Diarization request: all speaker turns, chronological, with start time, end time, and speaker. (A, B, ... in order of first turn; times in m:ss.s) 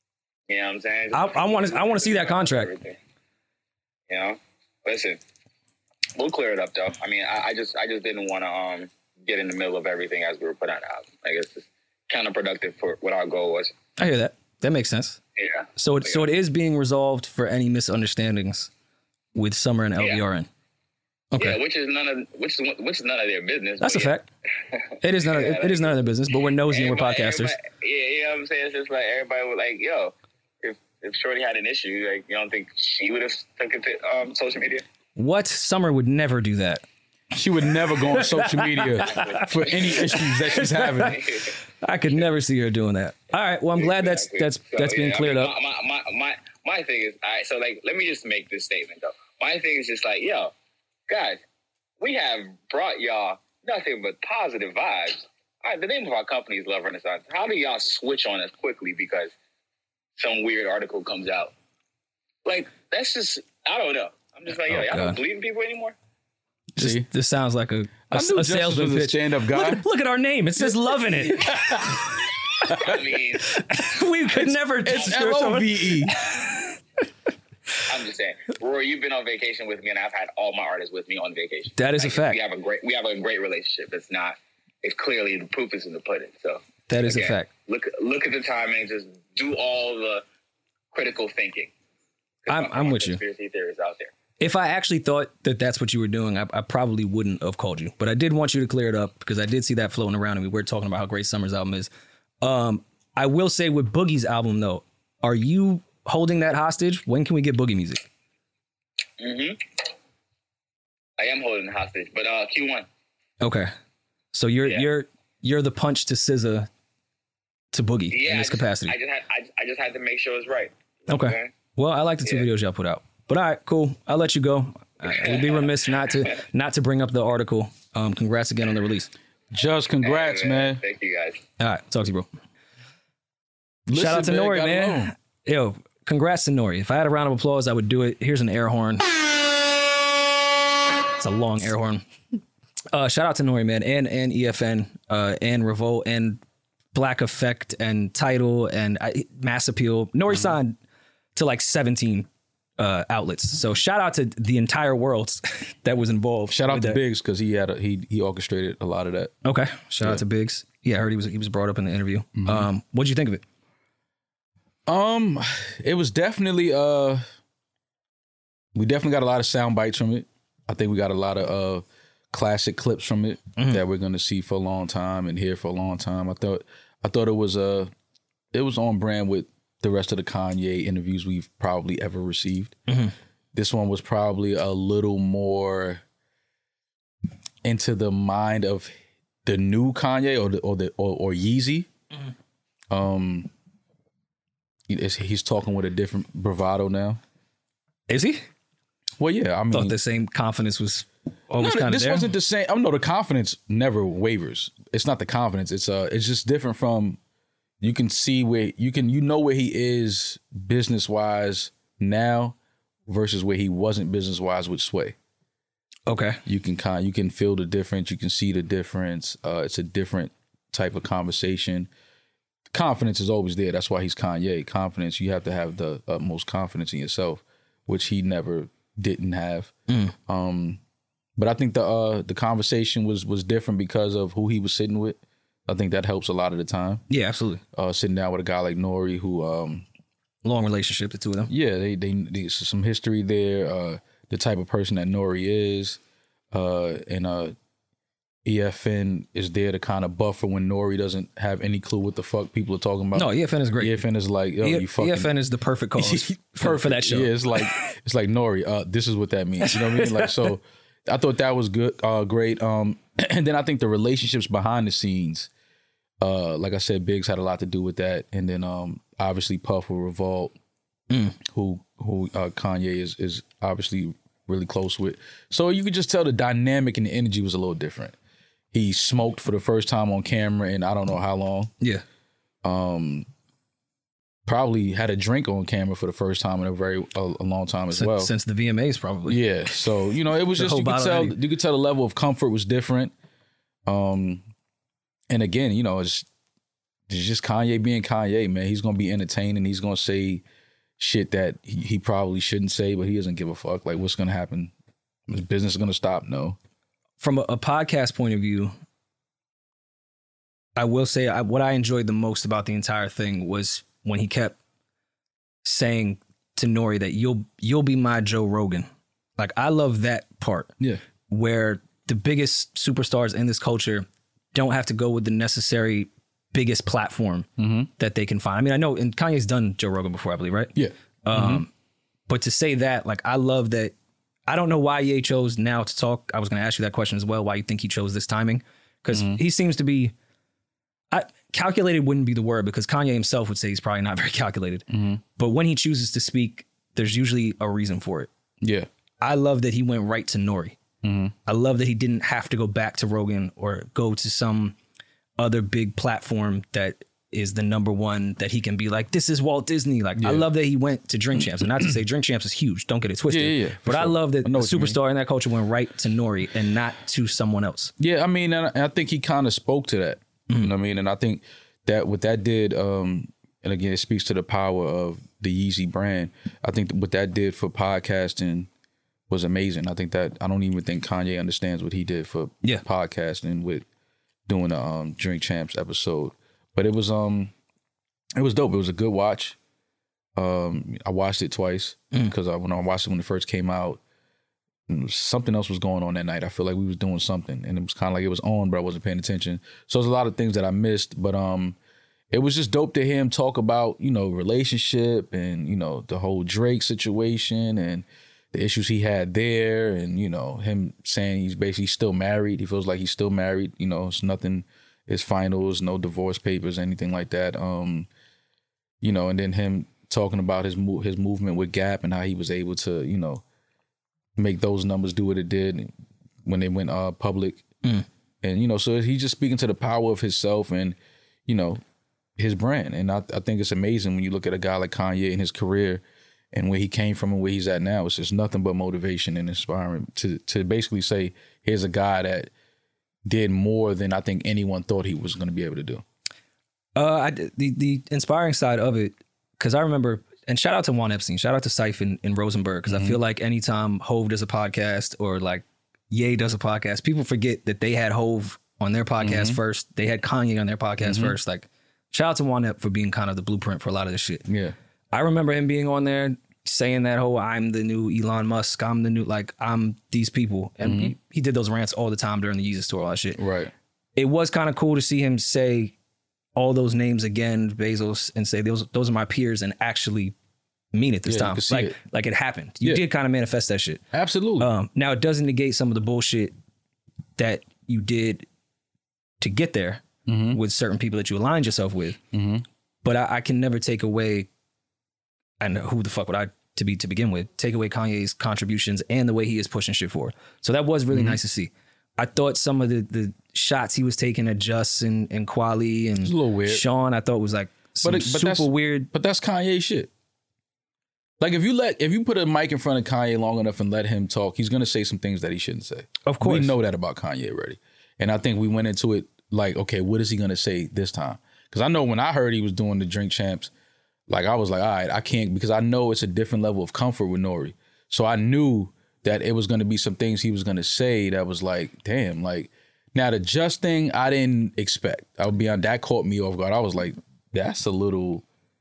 0:00.5-0:03.0 A
0:01.1-0:02.7 B
0:04.1-0:05.2 A
0:06.2-0:13.7 A
0:14.0-0:15.2 B
0:15.4-0:16.3 A
0:15.8-0:18.7 B
0:19.4-0:20.5 B
0:20.0-0:20.2 A
0:21.3-0:21.6 B
0:21.4-0:24.2 A
0:23.8-0:24.3 B
0:24.7-0:26.0 A
0:25.0-0:27.6 B
0:26.6-0:34.8 A
0:35.2-0:36.8 B
0:37.3-0:41.3 C
0:38.1-0:41.2 B
0:39.1-0:40.2 A
0:41.1-0:41.5 A
0:41.8-0:45.5 B
0:43.8-0:50.5 A
0:51.1-0:51.4 A
0:52.0-0:59.3 A
1:00.2-1:01.5 A
1:02.4-1:06.0 A
1:04.6-1:05.2 B
1:06.8-1:07.1 C
1:06.8-1:11.9 B
1:08.1-1:09.8 C
1:11.1-1:12.1 C
1:12.7-1:13.6 A
1:13.4-1:16.8 B
1:14.3-1:16.2 C
1:17.9-1:30.2 A
1:21.8-1:22.4 B
1:26.9-1:27.5 B
1:30.9-1:31.7 A
1:32.5-1:34.1 A
1:32.5-1:33.2 B
1:34.4-1:41.9 B
1:42.4-1:48.1 B
1:49.2-1:49.6 A
1:51.2-1:52.9 A
1:53.4-1:53.7 B
1:54.3-1:56.7 B
1:57.7-1:59.0 B
1:58.1-2:01.5 A
2:01.1-2:09.1 B
2:05.1-2:05.7 A
2:09.5-2:10.8 C
2:10.0-2:11.4 A
2:11.6-2:12.3 B
2:13.9-2:15.1 C
2:13.9-2:19.2 B
2:21.2-2:22.0 B
2:22.9-2:26.4 B
2:26.9-2:30.8 B
2:31.4-2:37.0 B
2:36.5-2:39.3 C
2:39.4-2:43.4 B
2:42.4-2:42.7 C
2:44.9-2:47.2 C
2:48.8-2:57.9 C
2:53.6-2:53.8 B
2:58.5-3:02.8 C
3:02.9-3:03.1 B
3:03.5-3:06.0 C
3:07.6-3:08.9 C
3:09.4-3:11.9 C
3:12.9-3:13.5 C
3:14.9-3:17.2 C
3:18.1-3:18.4 B
3:19.2-3:20.0 C
3:19.7-3:22.3 B
3:21.6-3:27.2 C
3:27.8-3:32.6 C
3:33.1-3:35.2 C
3:36.1-3:36.4 B
3:36.5-3:41.9 C
3:42.7-3:49.7 C
3:49.9-3:50.2 B
3:50.3-3:50.8 C
3:51.4-3:57.0 C
3:57.1-3:57.6 B
3:57.7-3:59.9 C
4:00.4-4:01.5 B
4:01.5-4:06.0 C
4:06.5-4:07.6 C
4:08.4-4:15.3 C
4:13.2-4:14.0 B
4:14.6-4:17.7 B
4:16.0-4:25.5 C
4:19.6-4:20.5 B
4:26.2-4:30.6 C
4:31.1-4:31.4 B
4:31.4-4:38.2 C
4:38.7-4:41.7 C
4:42.6-4:43.3 C
4:44.5-4:48.3 C
4:47.9-4:49.4 B
4:49.3-4:53.1 C
4:50.5-4:51.4 B
4:53.9-4:54.4 C
4:55.3-4:56.3 C
4:57.1-5:00.4 C
5:01.0-5:04.7 C
5:05.3-5:06.6 C
5:07.2-5:08.7 B
5:10.8-5:14.6 B
5:15.6-5:18.9 B
5:19.4-5:20.7 B
5:21.3-5:30.7 B
5:27.6-5:27.9 C
5:30.8-5:31.6 C
5:31.2-5:31.7 B
5:32.3-5:33.9 B
5:34.5-5:40.1 B
5:39.1-5:39.4 C
5:41.1-5:48.3 B
5:44.9-5:45.2 C
5:48.6-5:48.9 C
5:49.2-5:50.8 B
5:51.0-5:51.4 C
5:51.5-5:54.8 B
5:55.4-6:07.9 B
6:00.2-6:00.5 C
6:03.3-6:05.0 C
6:08.0-6:18.7 C
6:19.3-6:23.8 C
6:24.5-6:27.5 C
6:28.4-6:29.6 C
6:30.4-6:34.0 C
6:34.9-6:41.8 C
6:42.3-6:58.1 C
6:59.0-7:03.4 C
7:04.4-7:05.9 C
7:06.4-7:07.6 C
7:08.4-7:11.8 C
7:12.4-7:22.5 C
7:23.2-7:26.0 C
7:27.0-7:44.4 B
7:32.9-7:33.2 C
7:39.2-7:39.6 C
7:41.0-7:41.4 C
7:44.5-7:44.8 C
7:45.1-7:53.4 B
7:50.8-7:51.2 C
7:53.4-7:53.7 C
7:54.2-7:55.9 B
7:56.6-8:00.4 B
8:00.9-8:04.0 B
8:01.3-8:02.0 C
8:04.1-8:04.7 C
8:04.6-8:06.5 B
8:07.4-8:08.4 B
8:09.4-8:12.2 B
8:10.3-8:10.6 C
8:12.3-8:12.6 C
8:13.0-8:14.5 B
8:15.6-8:29.1 B
8:21.1-8:21.4 C
8:26.2-8:26.9 C
8:28.0-8:30.1 C
8:31.4-8:43.7 C
8:36.3-8:36.7 B
8:44.3-8:58.4 C